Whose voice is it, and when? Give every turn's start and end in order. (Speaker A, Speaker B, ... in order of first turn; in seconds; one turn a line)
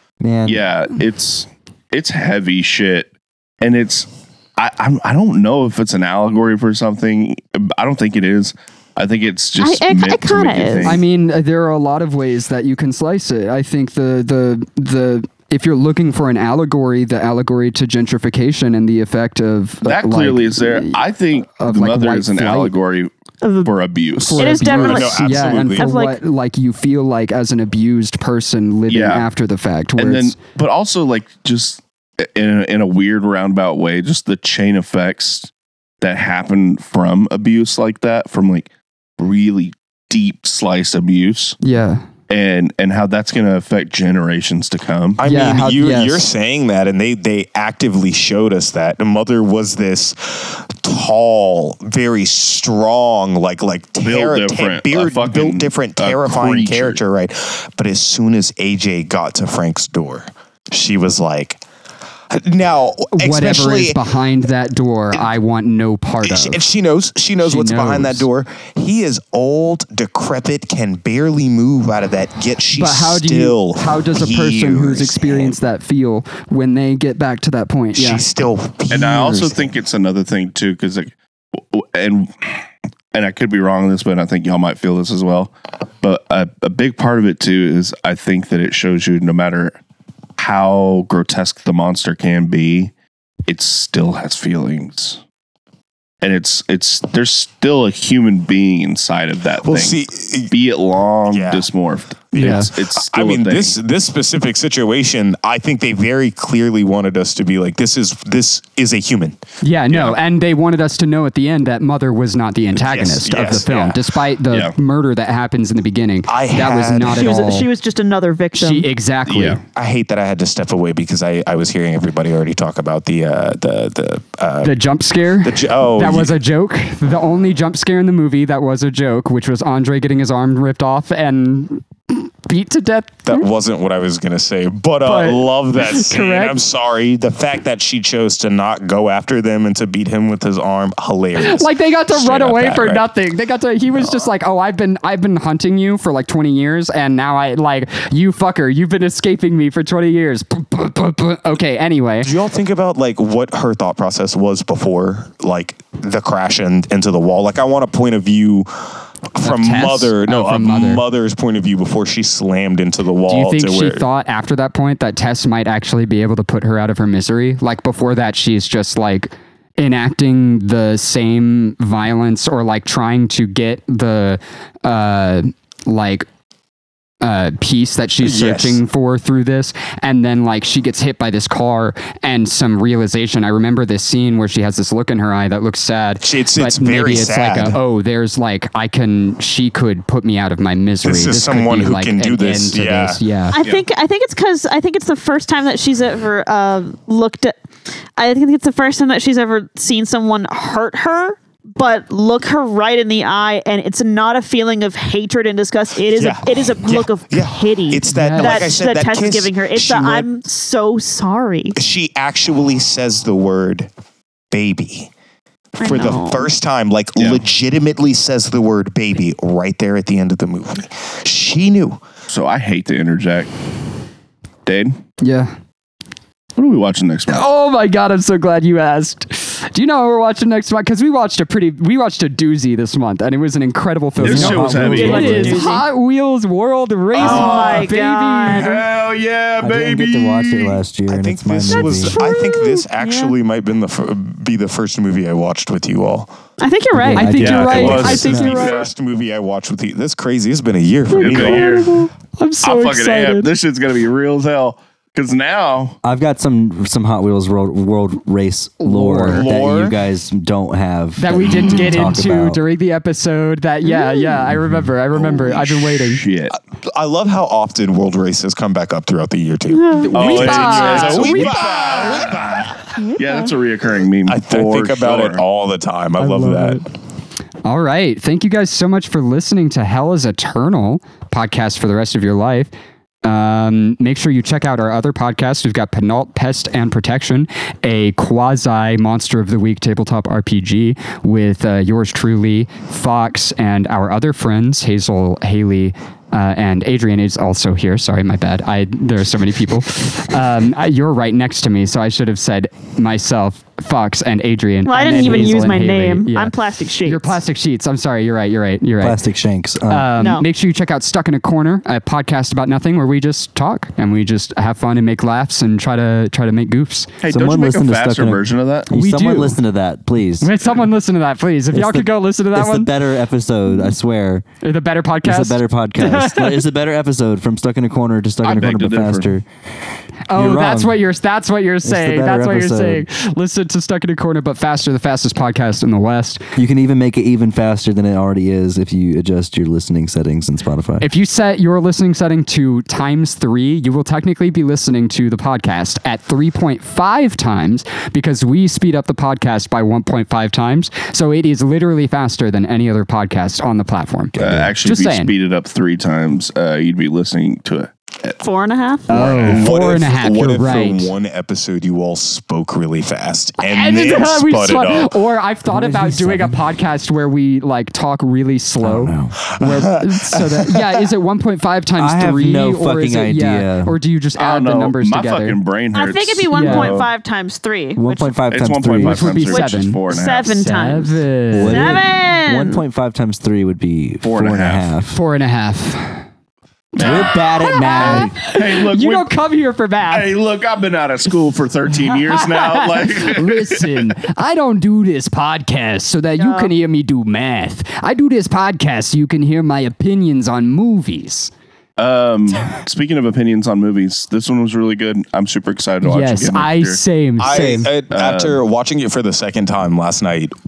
Speaker A: 0.2-0.6
Speaker B: 0.5-11.0
Speaker C: 9.6-11.0
Speaker D: 10.8-21.0
Speaker B: 19.8-23.1
Speaker D: 21.6-22.7
Speaker C: 23.4-23.7
Speaker B: 23.6-24.5
Speaker D: 24.2-30.4
Speaker C: 24.4-26.2
Speaker E: 24.7-25.9
Speaker B: 28.9-29.3
Speaker B: 30.0-41.6
Speaker D: 41.6-42.0
Speaker B: 42.3-45.2
Speaker E: 45.2-61.6
Speaker D: 45.2-46.3
Speaker B: 54.0-57.0
Speaker E: 62.3-64.0
Speaker D: 63.2-66.6
Speaker E: 66.3-75.6
Speaker D: 67.4-68.3
Speaker D: 72.8-78.2
Speaker E: 78.0-79.6
Speaker B: 78.9-82.6
Speaker B: 83.1-89.8
Speaker B: 90.4-92.9
Speaker B: 93.5-95.2
Speaker B: 96.2-103.8
Speaker E: 99.6-100.5
Speaker E: 101.3-101.7
Speaker E: 102.3-109.4
Speaker D: 102.4-102.7
Speaker D: 109.6-117.7
Speaker E: 109.9-110.2
Speaker E: 112.8-114.0
Speaker B: 113.7-114.0
Speaker E: 116.3-117.3
Speaker C: 117.1-118.9
Speaker D: 118.6-119.6
Speaker B: 119.3-119.6
Speaker E: 119.8-124.7
Speaker D: 124.6-133.5
Speaker E: 125.4-126.4
Speaker E: 133.2-143.0
Speaker D: 135.0-136.6
Speaker D: 141.4-152.3
Speaker E: 144.0-144.3
Speaker E: 152.2-158.7
Speaker E: 159.3-164.0
Speaker D: 159.4-161.0
Speaker D: 163.3-176.3
Speaker D: 177.2-193.6
Speaker E: 178.2-178.8
Speaker E: 186.2-187.8
Speaker E: 191.0-193.2
Speaker C: 193.5-197.6
Speaker C: 198.2-211.8
Speaker E: 206.1-210.3
Speaker D: 208.1-208.7
Speaker E: 211.8-213.9
Speaker E: 214.5-215.1
Speaker C: 215.8-216.5
Speaker E: 215.8-222.0
Speaker B: 217.2-217.4
Speaker B: 222.3-223.5
Speaker B: 224.7-225.0
Speaker D: 225.2-225.5
Speaker B: 226.6-227.5
Speaker D: 227.3-238.7
Speaker A: 234.2-235.7
Speaker B: 234.2-235.6
Speaker C: 234.9-235.9
Speaker B: 237.2-237.9
Speaker C: 237.2-238.8
Speaker B: 238.5-240.8
Speaker A: 239.6-242.2
Speaker E: 241.1-246.3
Speaker C: 241.7-243.4
Speaker C: 246.6-247.4
Speaker A: 246.9-248.6
Speaker D: 247.1-248.7
Speaker B: 247.4-248.9
Speaker E: 247.7-251.9
Speaker D: 251.1-253.5
Speaker B: 251.2-252.0
Speaker B: 252.6-256.0
Speaker A: 256.0-262.6
Speaker D: 258.8-259.5
Speaker E: 259.3-260.0
Speaker D: 261.2-266.2
Speaker C: 263.9-264.4
Speaker B: 265.2-266.6
Speaker E: 266.9-272.9
Speaker C: 269.7-270.1
Speaker D: 270.0-271.7
Speaker B: 270.1-275.4
Speaker C: 273.0-273.4
Speaker E: 274.3-276.8
Speaker D: 276.2-276.8
Speaker D: 277.6-282.7
Speaker D: 283.2-306.5
Speaker C: 304.9-307.4
Speaker D: 307.0-309.2
Speaker A: 309.0-310.1
Speaker D: 309.9-317.1
Speaker C: 310.1-310.5
Speaker B: 317.2-318.9
Speaker A: 317.3-320.6
Speaker D: 318.9-319.6
Speaker D: 320.4-323.0
Speaker A: 321.7-324.5
Speaker D: 324.6-326.6
Speaker A: 325.2-329.4
Speaker B: 328.4-329.3
Speaker D: 330.3-336.4
Speaker A: 330.3-331.0
Speaker A: 331.8-333.1
Speaker A: 336.6-341.1
Speaker D: 341.0-355.3
Speaker B: 354.4-358.4
Speaker C: 358.4-359.1
Speaker D: 359.1-361.1
Speaker E: 359.1-365.1
Speaker B: 359.4-359.7
Speaker D: 363.6-375.6
Speaker A: 365.7-366.7
Speaker A: 368.8-369.4
Speaker E: 369.6-371.0
Speaker A: 372.0-374.0
Speaker B: 374.4-377.1
Speaker C: 375.9-378.4
Speaker D: 376.5-377.0
Speaker A: 378.0-379.3
Speaker B: 378.5-380.6
Speaker D: 379.0-380.0
Speaker C: 379.4-382.8
Speaker D: 380.6-382.0
Speaker A: 381.5-385.2
Speaker B: 384.2-384.9
Speaker D: 385.1-386.2
Speaker B: 386.9-389.3
Speaker A: 387.0-388.4
Speaker D: 387.1-390.3
Speaker B: 390.1-394.1
Speaker D: 391.9-401.5
Speaker C: 396.4-396.7
Speaker B: 402.0-407.0
Speaker D: 406.0-407.9
Speaker E: 407.4-410.5
Speaker B: 408.1-408.6